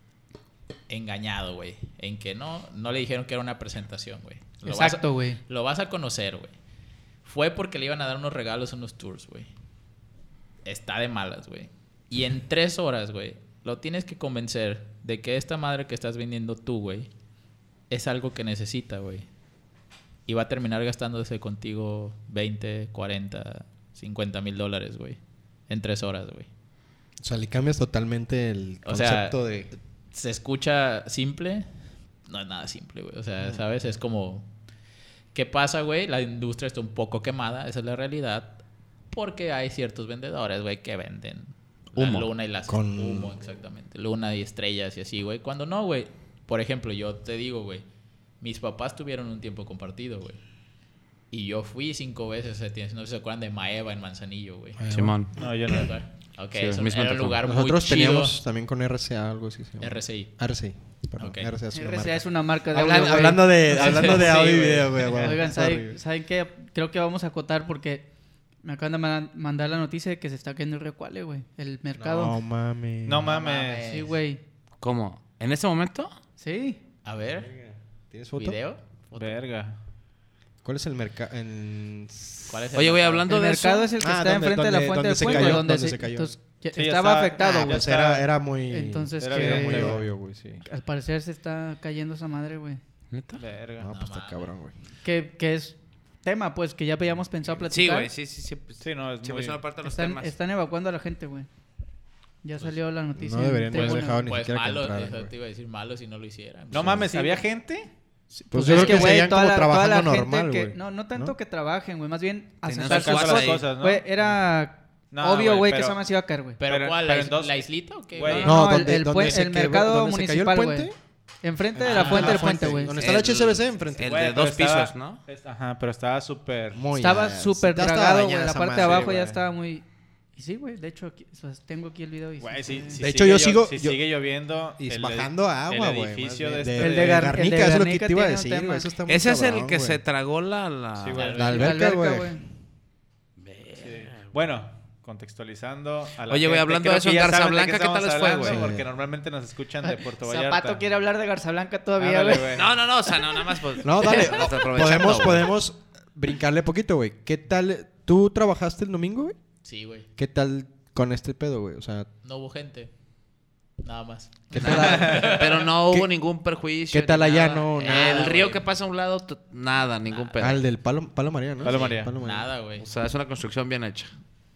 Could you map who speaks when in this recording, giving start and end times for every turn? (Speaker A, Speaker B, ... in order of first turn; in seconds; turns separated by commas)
Speaker A: 0.9-6.5, Speaker B: 4.6-5.4, Speaker A: 7.2-9.5, Speaker A: 10.7-17.1, Speaker A: 17.9-19.3, Speaker A: 20.3-26.5, Speaker C: 27.2-29.7, Speaker A: 28.9-29.4, Speaker A: 30.1-31.7, Speaker A: 32.3-34.5, Speaker A: 35.3-38.6, Speaker A: 39.1-47.9, Speaker D: 42.0-42.3, Speaker C: 42.7-43.3, Speaker A: 48.4-50.4, Speaker A: 51.3-54.8, Speaker C: 54.8-55.2, Speaker D: 54.9-55.3, Speaker E: 55.4-55.9, Speaker A: 55.4-58.4, Speaker D: 56.5-57.4, Speaker C: 57.4-66.0, Speaker A: 59.8-60.3, Speaker A: 61.2-61.5, Speaker B: 61.7-68.1, Speaker A: 63.7-64.7, Speaker E: 65.0-65.3, Speaker B: 68.6-72.3, Speaker C: 72.0-73.3, Speaker E: 73.0-73.9, Speaker A: 73.2-74.2, Speaker B: 73.9-74.4, Speaker D: 74.8-76.1, Speaker B: 76.4-76.8, Speaker A: 77.0-77.5, Speaker C: 77.4-78.6, Speaker A: 78.4-79.4, Speaker E: 79.2-79.8, Speaker C: 80.6-82.6, Speaker A: 82.5-83.3, Speaker D: 82.7-83.9, Speaker B: 83.3-88.0, Speaker C: 84.0-86.3, Speaker E: 85.2-85.6, Speaker E: 86.7-88.3, Speaker C: 87.4-90.6, Speaker B: 88.7-90.0, Speaker E: 89.2-90.1, Speaker B: 90.6-92.8, Speaker D: 93.1-93.4, Speaker E: 93.3-93.9, Speaker C: 93.8-94.7, Speaker A: 93.9-94.5, Speaker B: 95.0-98.1, Speaker D: 97.7-100.3, Speaker E: 98.8-99.6, Speaker B: 99.8-101.5, Speaker B: 102.4-104.3, Speaker C: 103.2-105.3, Speaker A: 103.7-107.3, Speaker E: 106.7-107.9, Speaker B: 107.1-107.4, Speaker B: 108.3-116.6, Speaker C: 108.5-111.4, Speaker E: 108.7-109.2, Speaker D: 112.7-113.7, Speaker E: 112.8-114.0, Speaker E: 115.1-116.0, Speaker A: 116.6-118.6, Speaker E: 116.7-118.6, Speaker B: 118.3-120.9, Speaker C: 118.4-120.9, Speaker B: 121.4-123.0, Speaker C: 121.8-124.2, Speaker A: 121.8-122.4, Speaker E: 122.0-122.8, Speaker D: 123.0-125.2, Speaker E: 124.0-126.8, Speaker C: 126.8-129.2, Speaker B: 127.0-129.8, Speaker E: 128.7-129.4, Speaker B: 130.4-133.0, Speaker E: 132.4-137.4, Speaker C: 133.0-134.0, Speaker C: 134.8-140.0, Speaker B: 136.8-138.9, Speaker D: 139.1-141.3, Speaker E: 141.0-141.4, Speaker A: 141.1-141.7, Speaker C: 141.3-142.4, Speaker B: 141.5-142.4, Speaker D: 143.4-144.3, Speaker E: 143.8-150.8, Speaker D: 146.3-148.6, Speaker C: 148.4-148.8, Speaker B: 149.8-152.6, Speaker E: 152.0-152.7, Speaker D: 152.5-155.5, Speaker C: 153.8-159.4, Speaker A: 159.6-160.1, Speaker C: 160.2-162.1, Speaker A: 162.2-162.9, Speaker A: 163.8-165.7, Speaker C: 164.5-165.3, Speaker D: 164.6-170.6, Speaker C: 166.9-168.3, Speaker A: 167.8-168.7, Speaker A: 170.1-170.4, Speaker C: 170.4-172.5, Speaker E: 171.6-172.1, Speaker A: 171.6-172.9, Speaker D: 172.8-174.1